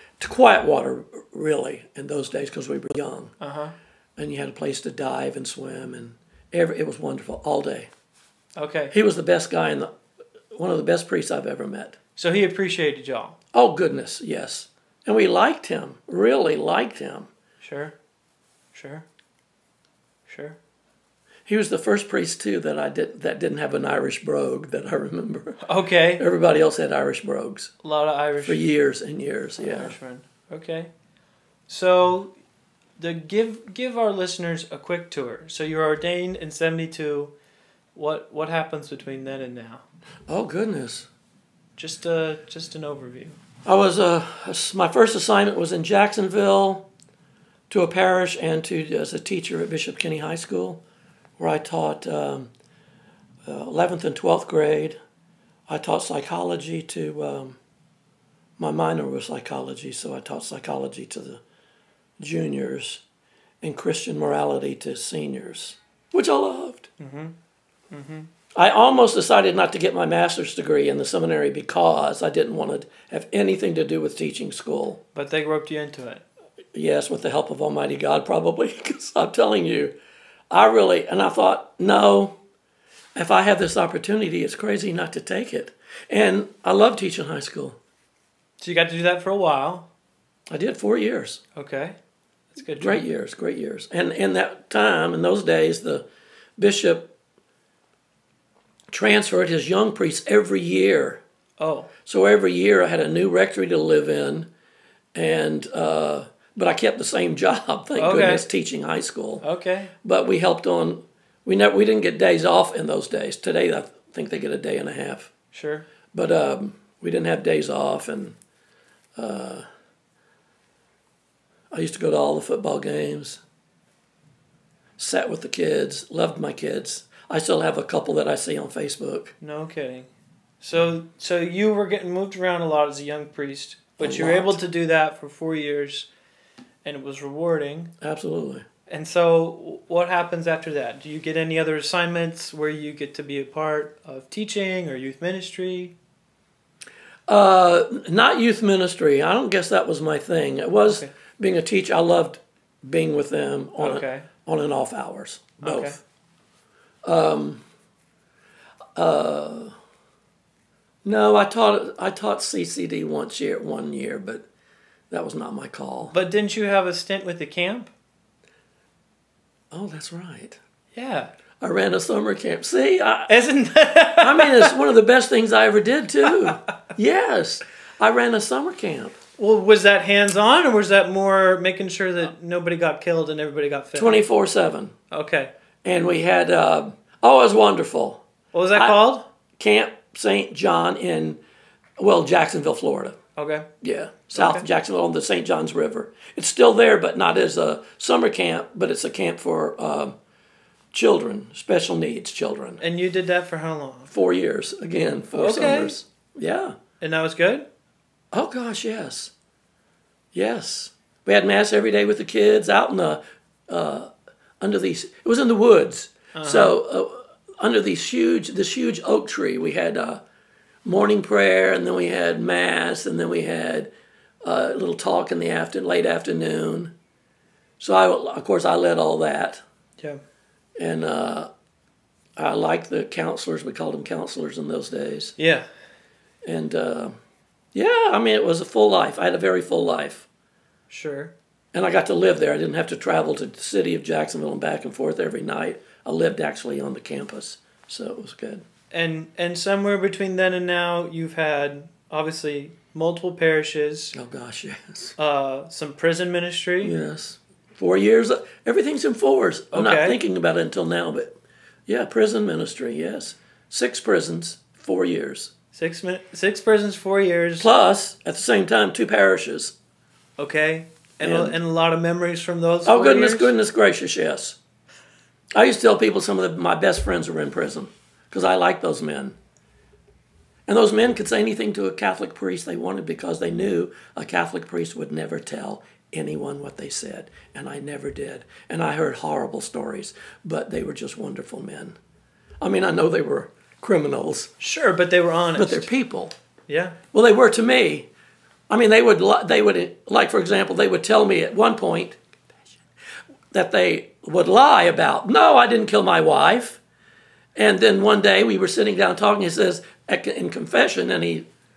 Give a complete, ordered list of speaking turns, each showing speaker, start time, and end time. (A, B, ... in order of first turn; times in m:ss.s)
0:00.2-0:03.3 A
0:03.4-0:03.7 B
0:04.2-0:07.9 A
0:08.6-0:08.9 B
0:08.9-0:09.9 A
0:10.5-0:12.0 A
0:12.2-0:13.4 B
0:13.5-0:17.3 A
0:17.6-0:18.0 B
0:18.7-0:19.0 B
0:20.3-0:20.6 B
0:21.5-0:25.6 A
0:25.6-0:26.2 B
0:26.2-0:27.7 A
0:27.8-0:28.6 B
0:28.4-0:30.0 A
0:29.6-0:30.9 B
0:31.7-0:32.4 B
0:33.0-0:37.3 B
0:38.0-0:39.8 B
0:40.3-0:41.1 A
0:41.8-0:43.4 B
0:43.6-0:46.9 A
0:47.7-0:50.8 A
0:51.4-0:52.5 A
0:53.5-0:55.0 A
0:55.7-0:57.6 A
0:58.6-1:01.4 A
1:02.2-1:03.0 A
1:03.6-1:06.9 A
1:07.0-1:07.4 B
1:07.9-1:08.3 B
1:08.6-1:15.0 A
1:15.2-1:16.2 B
1:16.7-1:20.0 A
1:20.5-1:22.4 A
1:23.2-1:27.8 A
1:28.6-1:29.9 B
1:30.5-1:31.4 A
1:31.6-1:32.0 B
1:32.5-1:33.1 B
1:32.8-1:36.1 A
1:36.6-1:37.1 A
1:38.9-1:41.2 A
1:41.6-1:41.9 B
1:42.1-1:44.5 A
1:45.2-1:49.4 A
1:48.0-1:48.4 B
1:49.4-1:49.9 B
1:50.0-1:55.3 A
1:55.5-1:55.9 B
1:56.1-1:58.4 A
1:59.2-1:59.6 A
2:01.7-2:03.4 A
2:05.0-2:09.3 A
2:09.4-2:10.1 B
2:10.6-2:16.1 B
2:14.0-2:14.6 A
2:16.8-2:17.9 B
2:18.0-2:18.6 A
2:18.9-2:26.0 B
2:27.3-2:36.0 A
2:33.8-2:34.3 B
2:35.6-2:36.0 B
2:37.1-2:37.6 A
2:39.0-2:39.7 A
2:41.0-2:44.5 A
2:45.1-2:46.1 A
2:46.1-2:47.9 B
2:49.7-2:50.6 A
2:51.0-2:51.3 B
2:51.6-2:53.3 A
2:53.3-2:54.8 B
2:54.2-2:59.2 A
2:56.2-2:56.6 B
2:59.4-3:04.2 B
3:04.0-3:05.0 A
3:05.1-3:05.5 B
3:05.8-3:08.2 A
3:08.5-3:09.2 B
3:08.7-3:09.0 A
3:09.6-3:11.4 A
3:12.0-3:13.2 A
3:13.4-3:13.7 B
3:13.8-3:20.2 A
3:14.4-3:14.7 B
3:20.9-3:22.8 A
3:22.8-3:24.1 B
3:24.1-3:26.8 A
3:25.3-3:26.0 B
3:27.0-3:27.7 B
3:28.3-3:29.3 A
3:30.3-3:34.1 A
3:34.6-3:40.2 A
3:36.3-3:36.8 B
3:40.8-3:43.9 A
3:44.4-3:46.9 A
3:47.8-3:49.6 A
3:50.8-3:51.5 A
3:52.4-3:55.3 A
3:55.4-3:55.7 B
3:56.4-3:57.2 A
3:57.7-4:00.3 A
4:00.9-4:01.3 B
4:01.7-4:08.6 A
4:08.9-4:14.2 B
4:14.1-4:15.2 A
4:15.2-4:17.0 B
4:16.8-4:25.5 A
4:19.7-4:20.2 B
4:25.7-4:27.7 B
4:27.6-4:29.8 A
4:30.4-4:33.5 B
4:31.2-4:31.6 A
4:32.9-4:34.6 A
4:35.6-4:39.4 A
4:40.7-4:52.0 A
4:52.6-4:54.5 A
4:54.6-4:55.9 B
4:55.6-4:56.4 A
4:56.7-4:57.0 B
4:57.1-4:58.1 A
4:58.7-5:02.2 A
5:03.5-5:06.8 A
5:07.6-5:11.5 A